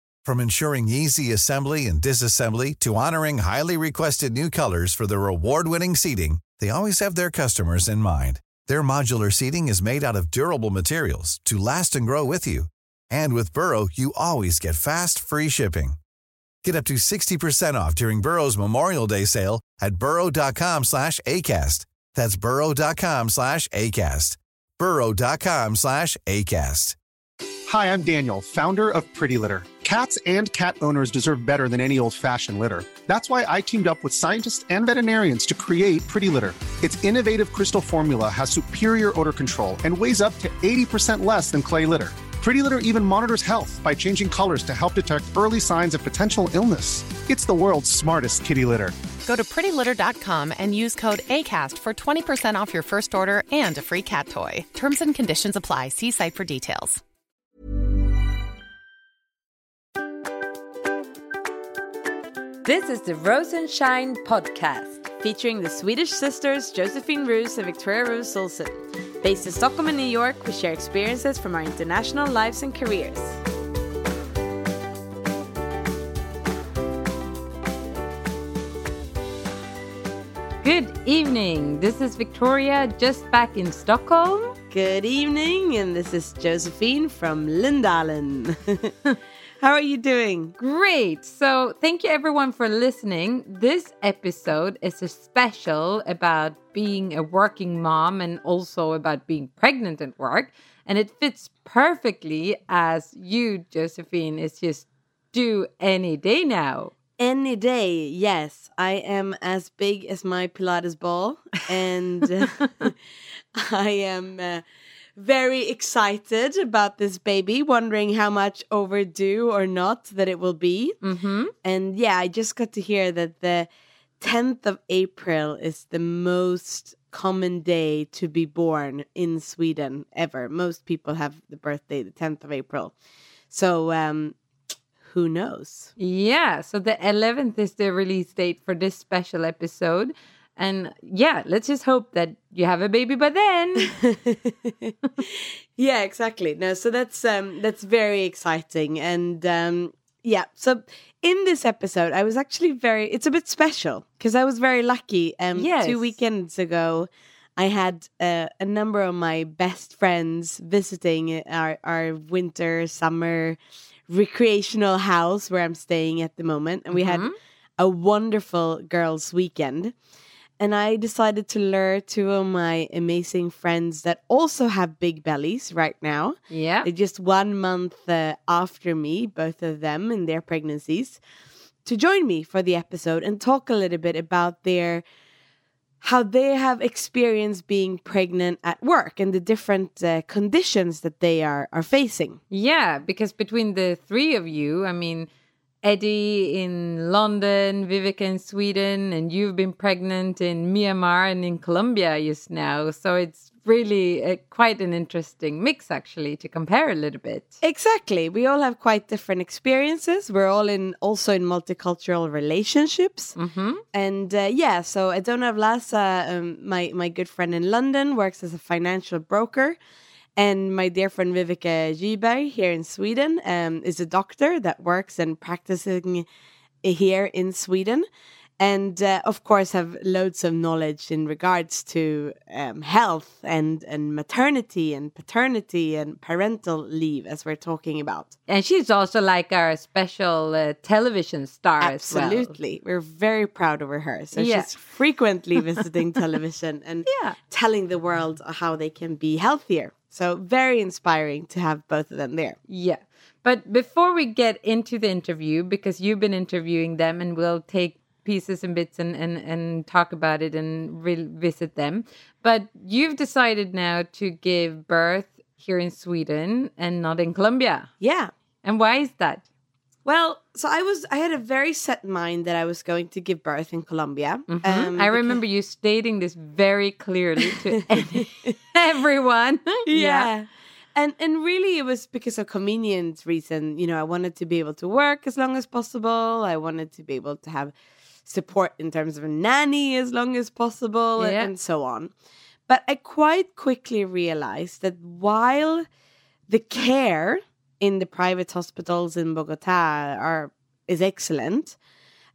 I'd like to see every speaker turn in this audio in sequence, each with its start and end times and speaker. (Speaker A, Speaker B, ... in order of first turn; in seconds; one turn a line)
Speaker A: 0.2-16.0
Speaker A: 16.6-27.0
Speaker B: 27.7-48.9
Speaker C: 49.2-57.0
Speaker D: 62.6-65.1
Speaker E: 65.2-73.4
Speaker D: 80.6-84.5
Speaker E: 84.7-88.9
Speaker E: 89.6-90.5
Speaker D: 90.6-106.9
Speaker E: 107.2-113.0
Speaker E: 113.5-114.6
Speaker E: 115.2-121.0
Speaker D: 121.0-121.5
Speaker E: 121.6-123.7
Speaker E: 124.2-132.9
Speaker E: 133.5-134.4
Speaker E: 135.0-135.9
Speaker D: 136.0-143.9
Speaker E: 144.1-167.2
Speaker D: 155.5-156.1
Speaker D: 166.9-167.3
Speaker E: 167.8-169.9
Speaker E: 170.6-181.2
Speaker D: 176.5-176.9
Speaker E: 181.8-185.0
Speaker E: 186.0-192.4
Speaker D: 192.5-195.3
Speaker D: 195.8-207.6
Speaker E: 207.6-213.3
Speaker D: 213.3-213.8
Speaker E: 213.9-219.8
Speaker E: 220.3-226.2
Speaker E: 226.8-228.1
Speaker E: 228.6-238.3
Speaker D: 238.5-242.5
Speaker E: 241.8-252.6
Speaker D: 244.3-244.7
Speaker D: 247.1-247.3
Speaker D: 252.7-267.9
Speaker E: 268.0-268.3
Speaker D: 268.6-269.4
Speaker E: 270.0-275.4
Speaker D: 274.5-280.3
Speaker E: 277.9-278.5
Speaker E: 279.9-287.7
Speaker E: 288.2-292.1
Speaker D: 291.2-291.5
Speaker E: 292.7-295.9
Speaker E: 296.5-301.8